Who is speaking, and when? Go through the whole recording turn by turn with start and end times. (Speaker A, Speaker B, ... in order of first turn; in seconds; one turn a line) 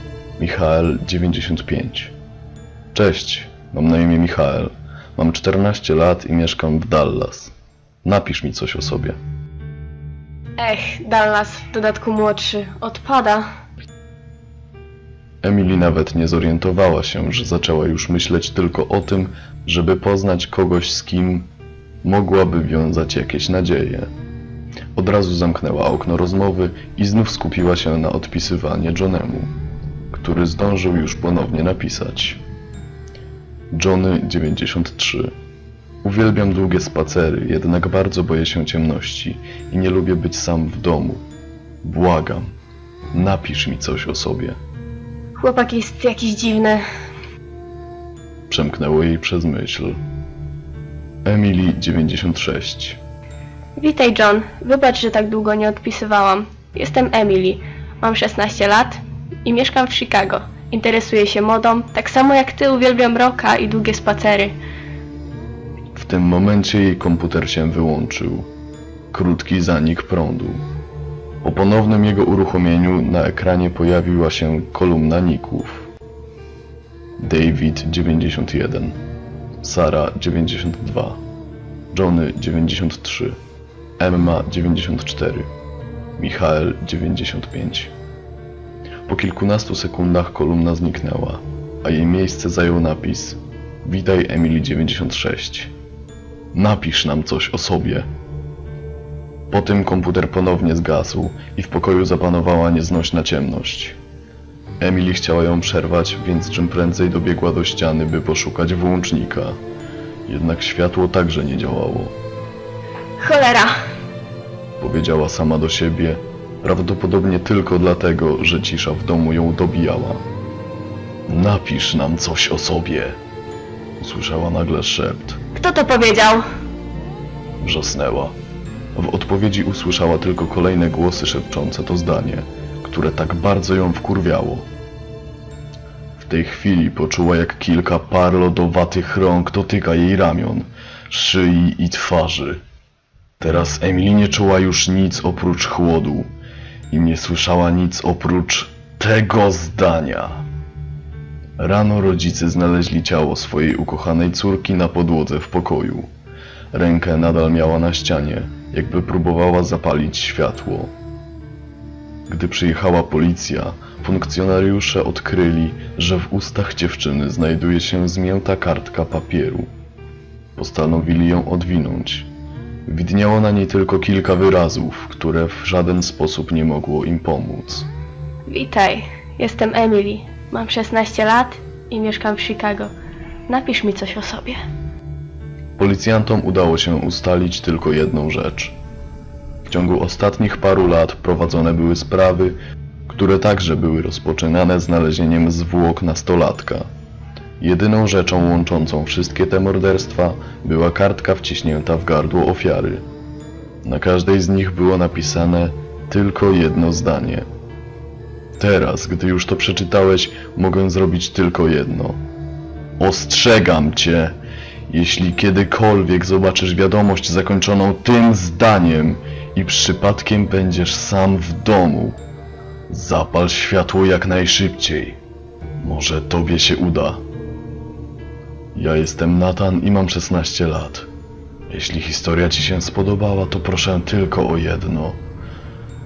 Speaker A: 0.4-2.1
Speaker A: 2.9-7.5
Speaker A: 8.0-9.2
Speaker B: 10.6-13.4
Speaker A: 15.4-21.4
Speaker A: 22.0-24.1
Speaker A: 24.9-29.5
Speaker A: 30.1-32.4
Speaker A: 33.7-35.3
Speaker A: 36.0-41.2
Speaker A: 41.8-42.5
Speaker A: 43.1-44.6
Speaker B: 45.4-46.8
Speaker A: 48.5-50.0
Speaker A: 51.2-53.0
Speaker B: 53.8-64.5
Speaker A: 65.9-68.5
Speaker A: 69.1-70.6
Speaker A: 71.4-75.9
Speaker A: 77.2-79.0
Speaker A: 79.6-81.2
Speaker A: 81.9-83.4
Speaker A: 84.0-85.5
Speaker A: 86.2-87.9
Speaker A: 89.0-95.7
Speaker A: 96.5-98.1
Speaker A: 99.5-104.0
Speaker A: 104.8-109.5
Speaker A: 110.2-112.1
Speaker B: 113.2-113.7
Speaker A: 114.8-120.2
Speaker A: 121.3-123.2
Speaker A: 124.0-125.4
Speaker B: 125.5-126.4
Speaker A: 127.6-128.3
Speaker A: 128.9-134.7
Speaker A: 136.2-142.6
Speaker A: 143.4-146.3
Speaker A: 146.9-150.4
Speaker A: 151.6-156.1
Speaker A: 156.7-160.9
Speaker A: 162.3-169.7
Speaker A: 170.6-172.3
Speaker A: 172.8-177.9
Speaker B: 178.5-182.9
Speaker B: 183.5-184.6
Speaker A: 185.8-188.8
Speaker A: 189.7-192.5
Speaker A: 193.1-196.8
Speaker A: 197.6-203.0
Speaker A: 203.8-207.4
Speaker A: 208.6-212.2
Speaker A: 213.0-214.3
Speaker A: 214.9-222.2
Speaker A: 222.9-225.2
Speaker A: 225.8-227.2
Speaker A: 228.7-231.1
Speaker A: 231.7-235.2